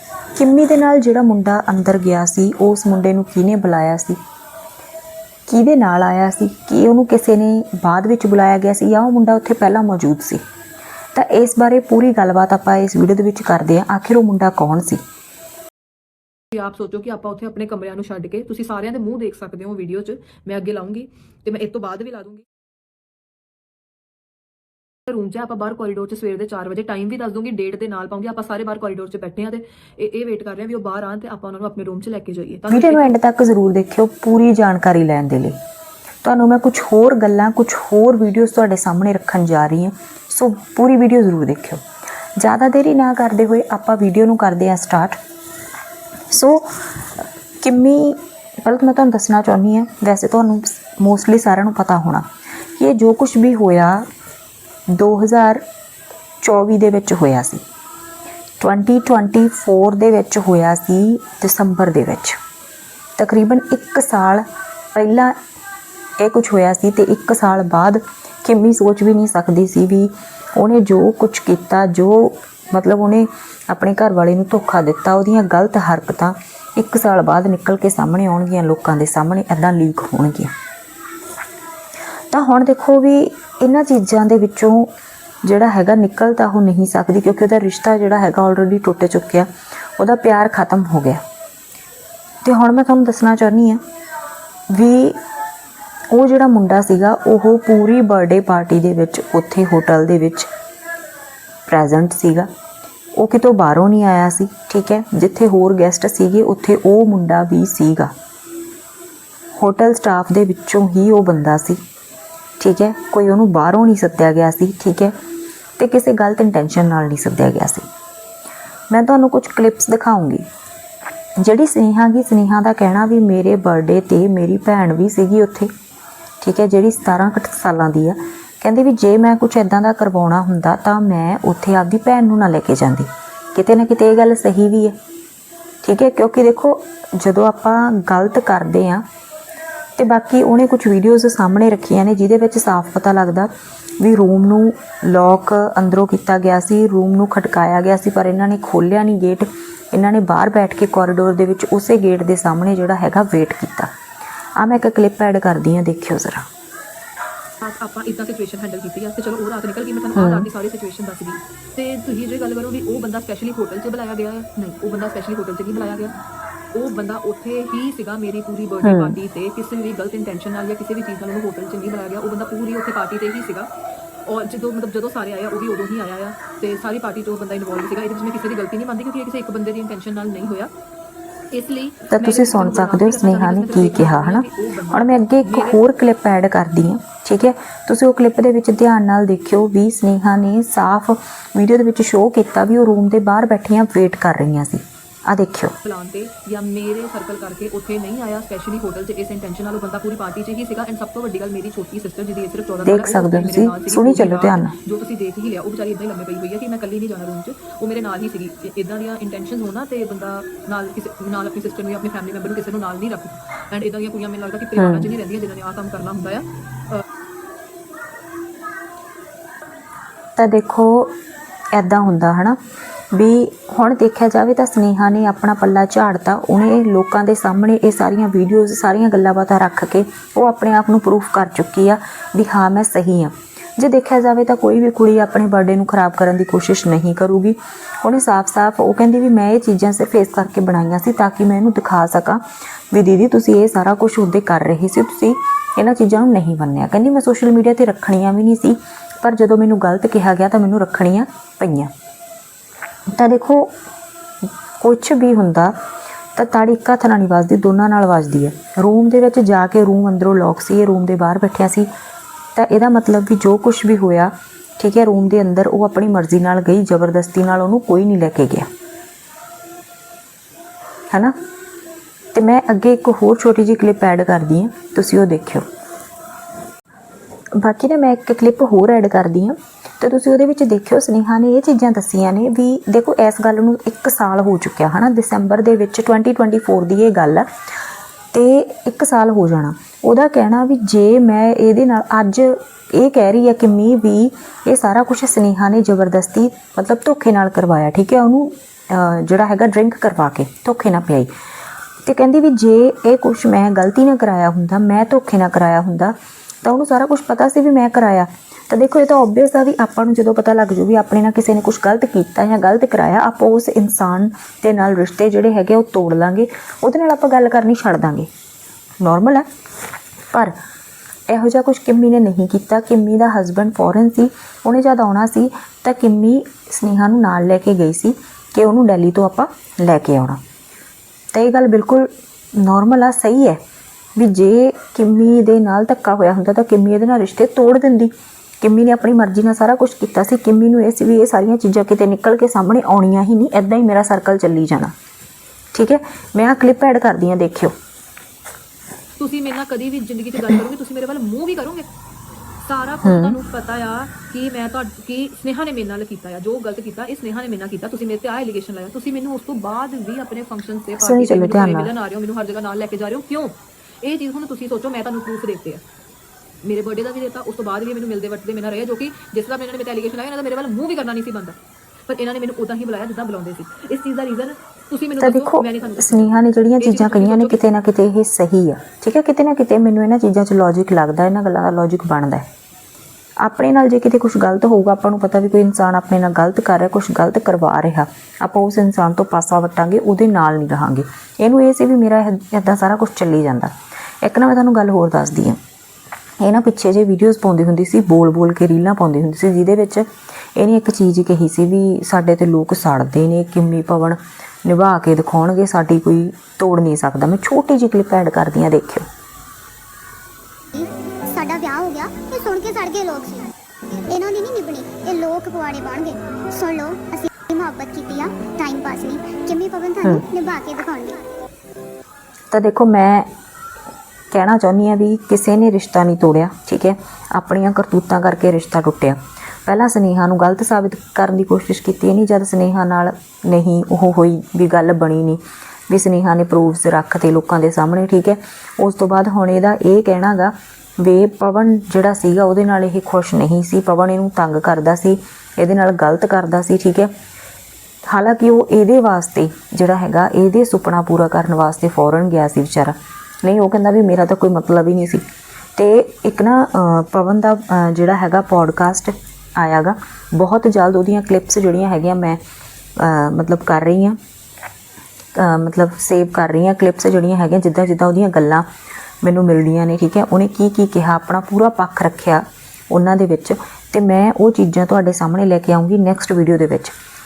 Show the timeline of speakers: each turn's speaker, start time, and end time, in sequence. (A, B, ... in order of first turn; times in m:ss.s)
0:00.4-0:04.2 A
0:05.5-0:10.4 A
0:11.1-0:15.0 A
0:16.5-0:22.4 B
0:25.1-0:33.2 B
0:32.7-0:35.6 A
0:36.2-0:41.8 A
0:42.4-0:45.2 A
0:46.3-0:47.1 A
0:47.6-0:52.3 A
0:52.8-0:54.0 A
0:54.9-0:55.6 A
0:56.4-0:57.6 A
0:58.6-1:02.4 A
1:03.2-1:05.4 A
1:06.2-1:20.5 A
1:22.3-1:24.9 A
1:25.4-1:31.2 A
1:32.4-1:33.8 A
1:34.7-1:35.2 A
1:36.1-1:40.5 A
1:41.7-1:42.5 A
1:43.2-1:48.1 A
1:49.6-1:51.8 A
1:52.6-1:55.1 A
1:55.8-1:57.9 A
1:58.9-2:00.4 A
2:01.4-2:05.7 A
2:06.4-2:14.9 A
2:15.8-2:19.0 A
2:20.0-2:33.9 A
2:34.6-2:36.4 A
2:37.6-2:46.2 B
2:40.1-2:40.5 A
2:46.7-2:53.7 B
2:48.8-2:49.2 A
2:54.2-3:00.7 B
3:01.5-3:05.8 B
3:02.1-3:15.8 A
3:15.8-3:37.0 B
3:22.8-3:24.8 A
3:34.8-3:35.1 A
3:40.4-3:41.1 A
3:41.7-3:42.6 A
3:43.1-4:11.9 A
4:13.1-4:13.7 A
4:14.8-4:15.7 A
4:16.4-4:21.9 A
4:22.6-4:28.7 A
4:32.3-4:35.6 A
4:37.6-4:47.5 A
4:48.3-5:01.3 A
5:02.1-5:18.3 A
5:19.0-5:19.5 A
5:21.3-5:30.4 A
5:31.3-5:33.6 A
5:34.2-5:44.9 A
5:45.7-5:47.7 A
5:49.2-5:51.9 B
5:52.7-6:05.8 B
5:53.0-5:53.4 A
6:01.0-6:01.9 A
6:06.6-6:17.7 B
6:15.2-6:22.5 A
6:23.4-6:35.6 A
6:36.4-6:49.1 A
6:50.7-7:01.2 C
7:02.5-7:03.3 A
7:04.3-7:27.1 A
7:28.1-7:35.2 A
7:35.8-7:42.4 A
7:43.0-7:44.2 A
7:45.4-7:48.7 A
7:49.2-7:56.9 A